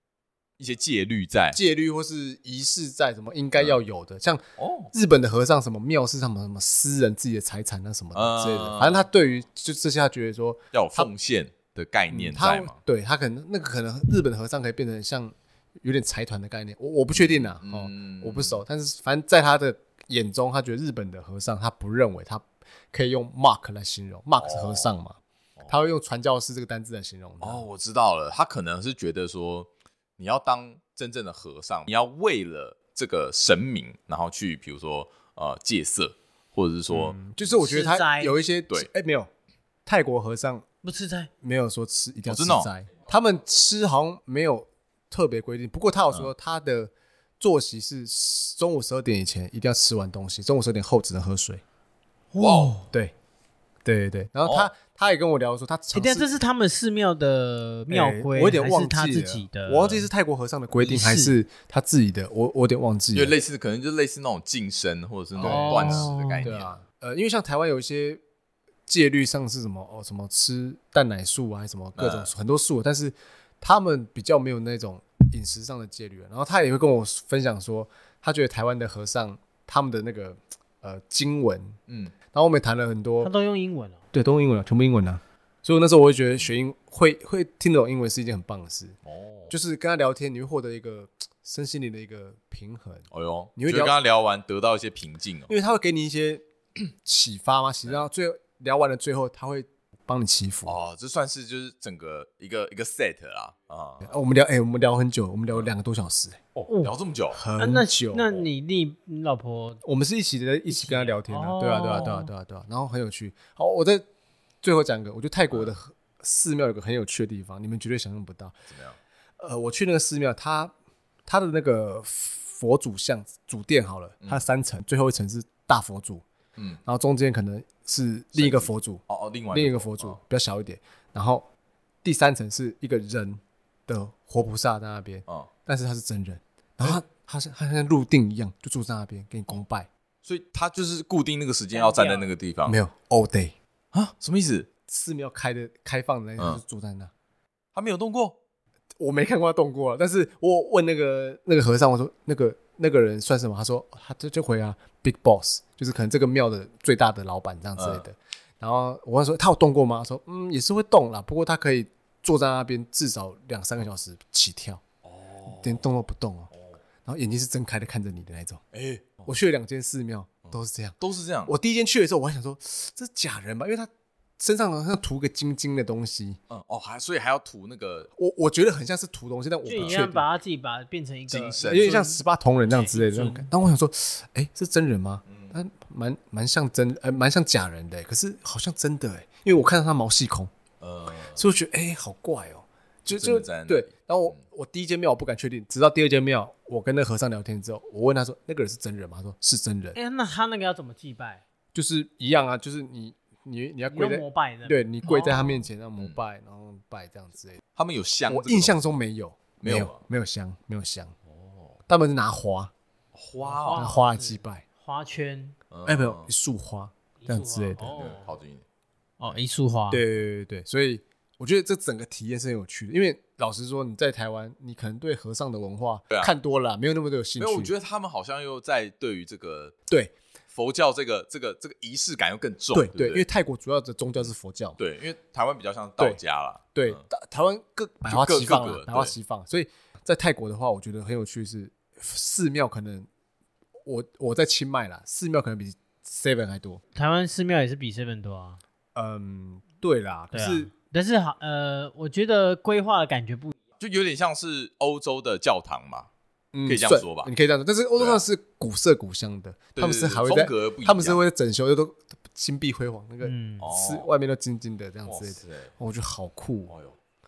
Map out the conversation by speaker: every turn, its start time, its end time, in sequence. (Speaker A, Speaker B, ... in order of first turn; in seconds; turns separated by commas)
Speaker A: 0.6-1.6, Speaker B: 1.5-11.1, Speaker A: 4.6-4.9, Speaker A: 8.1-9.1, Speaker A: 10.7-12.8, Speaker B: 12.1-27.6, Speaker A: 17.1-18.6, Speaker A: 24.4-24.9, Speaker A: 27.4-37.2, Speaker B: 36.9-39.3, Speaker C: 37.5-38.3, Speaker B: 39.9-40.6, Speaker C: 40.8-41.3, Speaker B: 41.4-51.6, Speaker A: 42.2-42.7, Speaker C: 52.3-52.8, Speaker A: 52.4-52.8, Speaker B: 52.8-53.1, Speaker B: 53.8-56.3, Speaker C: 55.9-60.1, Speaker B: 57.9-63.3, Speaker C: 60.8-61.3, Speaker A: 63.1-66.7, Speaker B: 65.4-68.2, Speaker C: 65.4-66.5, Speaker B: 68.9-81.8, Speaker A: 72.0-72.3, Speaker A: 81.9-82.1, Speaker B: 82.3-83.3, Speaker C: 83.2-84.0, Speaker B: 84.1-89.0, Speaker A: 89.0-89.5, Speaker B: 89.5-93.0, Speaker A: 93.1-95.5, Speaker B: 93.6-94.0, Speaker B: 95.5-96.4, Speaker B: 97.0-100.8, Speaker A: 100.7-104.1, Speaker B: 104.0-106.4, Speaker A: 106.5-107.4, Speaker C: 106.7-106.9, Speaker B: 107.3-108.4, Speaker C: 107.6-109.8, Speaker B: 109.8-114.0, Speaker C: 110.7-112.3, Speaker B: 114.6-118.6, Speaker A: 118.7-119.0, Speaker B: 119.4-120.7, Speaker B: 121.2-126.2, Speaker B: 126.8-131.4, Speaker A: 128.3-130.2, Speaker B: 132.0-139.9, Speaker A: 140.2-142.8, Speaker C: 141.7-142.3, Speaker B: 142.7-143.5, Speaker A: 143.9-144.7, Speaker B: 144.9-147.1, Speaker A: 147.7-148.3, Speaker B: 149.0-164.8, Speaker A: 157.8-158.0, Speaker A: 165.0-165.8, Speaker B: 165.5-166.5, Speaker B: 167.0-168.6, Speaker A: 168.7-169.3, Speaker B: 169.2-176.4, Speaker A: 170.5-171.5, Speaker A: 176.5-178.1, Speaker B: 178.2-180.2, Speaker C: 179.6-183.5, Speaker A: 179.7-180.0, Speaker A: 181.3-182.1, Speaker B: 181.6-190.5, Speaker A: 185.3-185.5, Speaker A: 190.8-191.4, Speaker B: 191.3-200.0, Speaker A: 193.1-194.4, Speaker C: 199.9-201.4, Speaker B: 201.7-207.6, Speaker C: 203.9-205.4, Speaker A: 205.1-206.2, Speaker A: 207.8-208.8, Speaker B: 208.3-211.1, Speaker A: 209.6-210.0, Speaker A: 211.3-211.8, Speaker B: 211.9-212.7, Speaker A: 213.1-213.8, Speaker C: 213.4-215.6, Speaker B: 213.7-214.6, Speaker A: 215.7-216.3, Speaker B: 215.8-218.1, Speaker C: 217.2-218.3, Speaker A: 217.9-218.6, Speaker C: 219.2-220.0, Speaker B: 219.9-227.7, Speaker A: 227.4-229.7, Speaker A: 230.5-233.2, Speaker B: 232.7-234.8, Speaker A: 234.8-237.0, Speaker B: 236.7-243.1, Speaker A: 238.1-239.1, Speaker B: 243.8-246.8, Speaker C: 246.9-248.6, Speaker B: 248.9-250.7, Speaker C: 250.3-253.5, Speaker A: 253.8-256.1, Speaker B: 256.5-266.7, Speaker A: 256.6-257.3, Speaker A: 258.0-258.2, Speaker A: 259.7-261.2, Speaker C: 263.2-263.6, Speaker A: 263.6-264.1, Speaker A: 265.1-265.7, Speaker A: 266.7-266.9